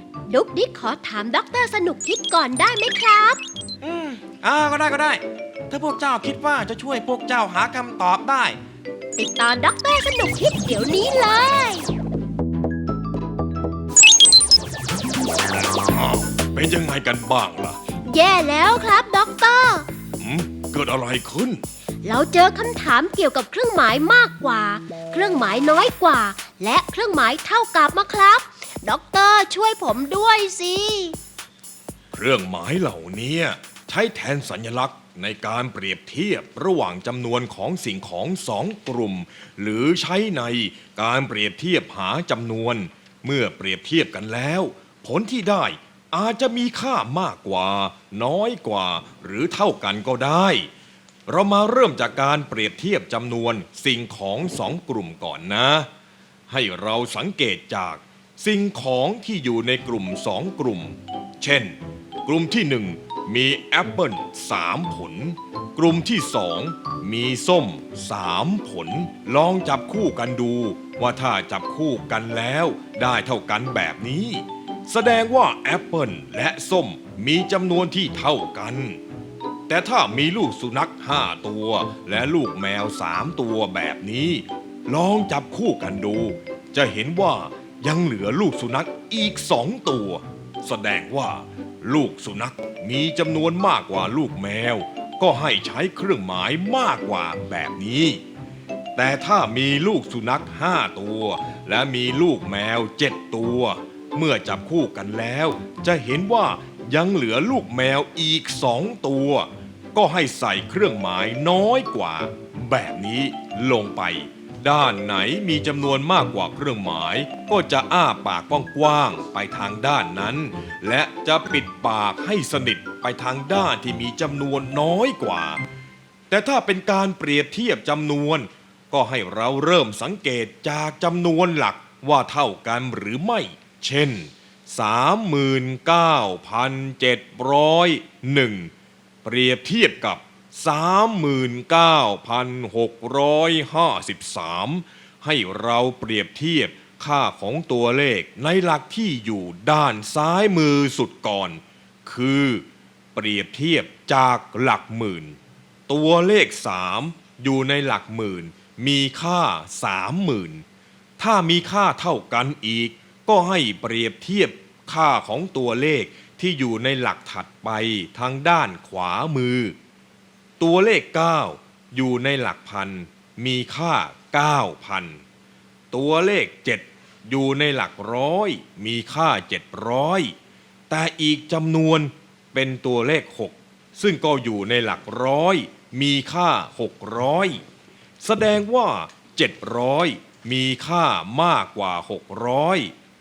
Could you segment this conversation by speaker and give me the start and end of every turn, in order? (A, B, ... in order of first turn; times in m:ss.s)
0:00.3-0:03.4 A
0:03.8-0:08.6 B
0:09.2-0:11.9 A
0:15.6-0:17.8 C
0:18.0-0:19.9 A
0:20.2-0:21.6 C
0:22.0-0:31.2 A
0:32.1-0:50.7 C
0:51.3-0:55.9 C
0:56.5-1:19.0 C
1:19.7-1:38.2 C
1:39.0-2:05.6 C
2:06.3-2:18.7 C
2:19.2-2:35.4 C
2:35.9-2:40.6 C
2:41.2-2:49.8 C
2:50.6-2:55.2 C
2:55.9-3:00.3 C
3:00.9-3:07.6 C
3:08.2-3:12.9 C